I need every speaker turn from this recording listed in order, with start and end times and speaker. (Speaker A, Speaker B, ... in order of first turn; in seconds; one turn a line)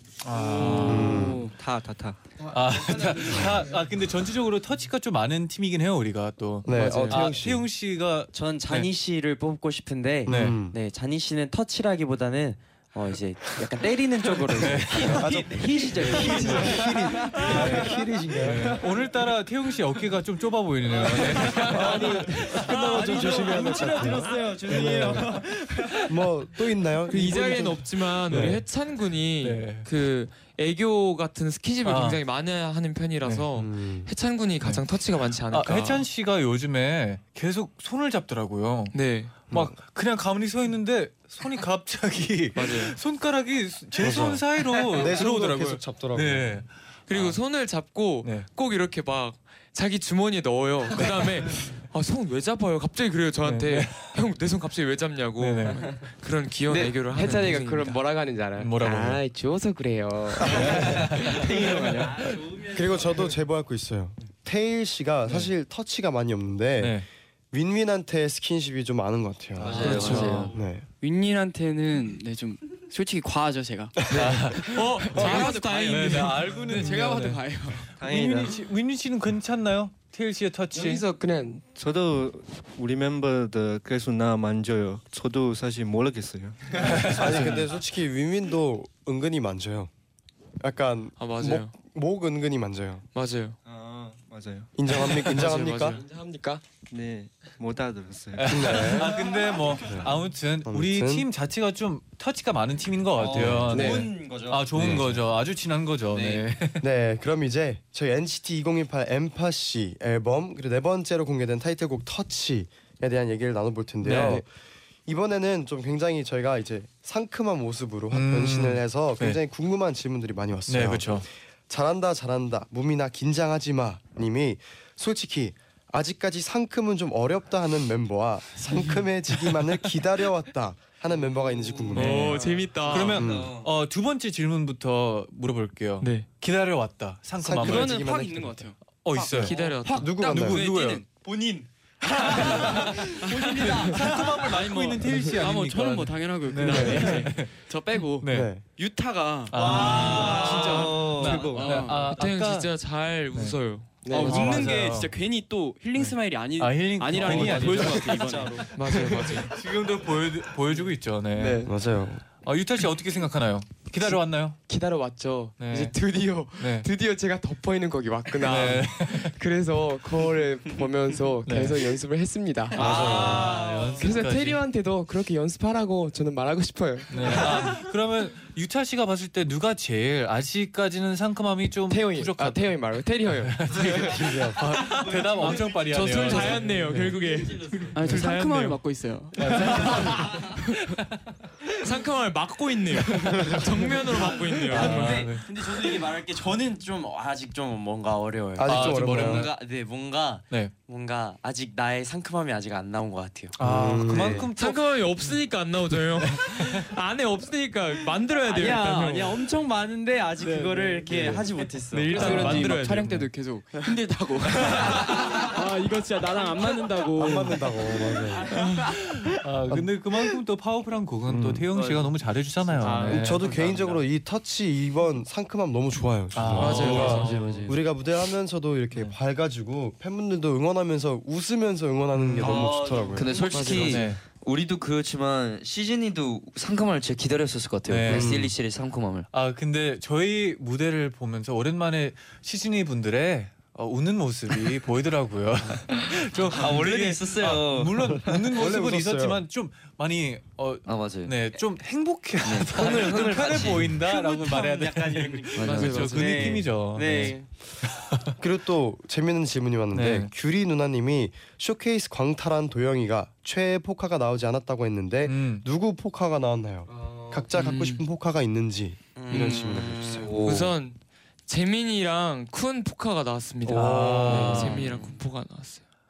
Speaker A: 0.2-1.4
Speaker B: 0.3-2.2
Speaker C: 0.8-1.5
Speaker A: 2.4-8.9
Speaker C: 6.6-7.7
Speaker D: 6.7-7.2
Speaker E: 8.3-18.0
Speaker C: 10.2-10.8
Speaker A: 10.3-10.6
Speaker A: 14.5-15.5
Speaker C: 15.0-18.7
Speaker F: 15.1-15.5
Speaker A: 16.1-23.0
Speaker E: 20.9-22.0
Speaker C: 21.6-25.4
Speaker E: 22.7-25.4
Speaker G: 22.9-23.2
Speaker B: 23.2-24.5
Speaker F: 23.4-24.2
Speaker A: 24.7-25.0
Speaker F: 24.8-25.2
Speaker B: 25.1-25.4
Speaker C: 26.0-28.6
Speaker D: 27.1-36.0
Speaker A: 29.4-29.9
Speaker A: 31.8-32.2
Speaker C: 33.6-34.1
Speaker A: 35.5-39.0
Speaker D: 38.9-39.3
Speaker A: 39.5-47.4
Speaker D: 42.5-43.0
Speaker C: 44.0-46.6
Speaker D: 47.1-58.0
Speaker A: 53.4-54.0
Speaker A: 55.4-55.9
Speaker G: 56.7-62.2
Speaker A: 58.6-59.2
Speaker F: 60.7-62.4
Speaker A: 60.8-61.4
Speaker C: 62.6-69.9
Speaker A: 66.8-67.0
Speaker H: 69.6-70.5
Speaker A: 69.6-70.5
Speaker E: 69.7-70.4
Speaker D: 69.8-70.3
Speaker C: 70.5-70.8
Speaker F: 71.0-77.9
Speaker C: 74.1-74.3
Speaker A: 74.1-81.0
Speaker D: 74.5-76.6
Speaker B: 78.0-78.7
Speaker G: 80.7-81.6
Speaker B: 81.7-87.1
Speaker C: 86.8-89.9
Speaker A: 86.8-87.6
Speaker C: 90.6-93.0
Speaker D: 91.2-91.7
Speaker D: 93.1-93.6
Speaker B: 93.6-94.7
Speaker C: 94.7-96.0
Speaker D: 94.9-96.0
Speaker G: 95.9-96.6
Speaker B: 96.9-99.0
Speaker A: 98.3-106.8
Speaker C: 98.5-101.3
Speaker E: 103.2-105.2
Speaker C: 103.2-104.0
Speaker B: 103.3-103.6
Speaker G: 103.7-104.0
Speaker C: 104.7-105.1
Speaker E: 106.1-106.5
Speaker C: 106.8-114.5
Speaker A: 114.0-114.4
Speaker C: 115.0-132.4
Speaker A: 118.1-119.4
Speaker A: 120.7-121.2
Speaker D: 131.9-133.2
Speaker A: 131.9-138.1
Speaker E: 132.5-133.7
Speaker C: 133.1-133.6
Speaker D: 136.0-136.3
Speaker C: 137.4-138.7
Speaker F: 137.6-139.8
Speaker A: 138.9-141.1
Speaker D: 139.3-140.3
Speaker C: 139.3-140.7
Speaker F: 140.3-141.0
Speaker E: 140.8-141.7
Speaker F: 142.1-152.1
Speaker E: 142.2-144.6
Speaker A: 142.5-147.5
Speaker C: 146.7-147.1
Speaker A: 148.2-148.5
Speaker C: 148.2-148.6
Speaker A: 149.5-150.6
Speaker E: 149.6-151.6
Speaker B: 149.7-151.8
Speaker D: 150.4-150.8
Speaker A: 151.1-152.7
Speaker D: 151.8-154.9
Speaker G: 154.0-154.4
Speaker F: 154.1-159.0
Speaker A: 154.2-155.1
Speaker A: 155.9-161.7
Speaker E: 157.1-158.7
Speaker D: 158.7-159.5
Speaker G: 161.3-161.7
Speaker C: 161.7-162.2
Speaker A: 162.4-164.6
Speaker G: 164.7-173.2
Speaker A: 165.6-165.9
Speaker A: 166.6-166.9
Speaker A: 168.4-169.3
Speaker A: 171.4-171.9
Speaker E: 172.8-173.9
Speaker A: 172.8-174.6
Speaker C: 172.8-173.6
Speaker G: 173.9-177.8
Speaker A: 177.1-187.2
Speaker G: 181.9-184.0
Speaker C: 183.8-184.6
Speaker E: 184.9-185.8
Speaker D: 185.7-188.2
Speaker F: 187.9-190.9
Speaker A: 188.0-188.8
Speaker A: 189.3-190.2
Speaker D: 191.8-195.3
Speaker E: 194.3-204.5
Speaker A: 194.7-195.5
Speaker C: 198.6-199.5
Speaker A: 198.6-199.5
Speaker A: 203.6-204.8
Speaker C: 203.6-204.5
Speaker D: 204.6-209.5
Speaker A: 206.3-206.9
Speaker E: 208.4-212.8
Speaker F: 210.4-211.5
Speaker D: 211.9-213.2
Speaker F: 212.1-218.9
Speaker A: 212.9-213.2
Speaker C: 217.1-218.5
Speaker A: 218.9-223.6
Speaker C: 221.3-221.7
Speaker E: 221.7-224.0
Speaker C: 223.0-233.3
Speaker A: 226.3-227.7
Speaker D: 226.5-227.4
Speaker E: 226.5-227.8
Speaker A: 232.1-232.8
Speaker E: 232.4-234.0
Speaker H: 233.2-239.3
Speaker A: 233.8-234.2
Speaker A: 237.9-238.5
Speaker C: 238.1-238.5
Speaker A: 239.3-258.3
Speaker E: 246.5-247.8
Speaker H: 246.6-247.9
Speaker C: 248.0-249.4
Speaker H: 250.8-251.4
Speaker H: 252.4-253.8
Speaker E: 252.7-257.5
Speaker H: 255.6-256.0
Speaker D: 255.6-256.6
Speaker C: 258.4-270.3
Speaker A: 259.9-260.3
Speaker A: 265.2-265.6
Speaker E: 266.9-267.4
Speaker D: 267.5-268.0
Speaker E: 269.2-270.5
Speaker D: 269.3-270.9
Speaker H: 270.2-270.7
Speaker D: 271.5-275.8
Speaker C: 273.6-274.7
Speaker A: 273.7-275.0
Speaker E: 274.6-275.1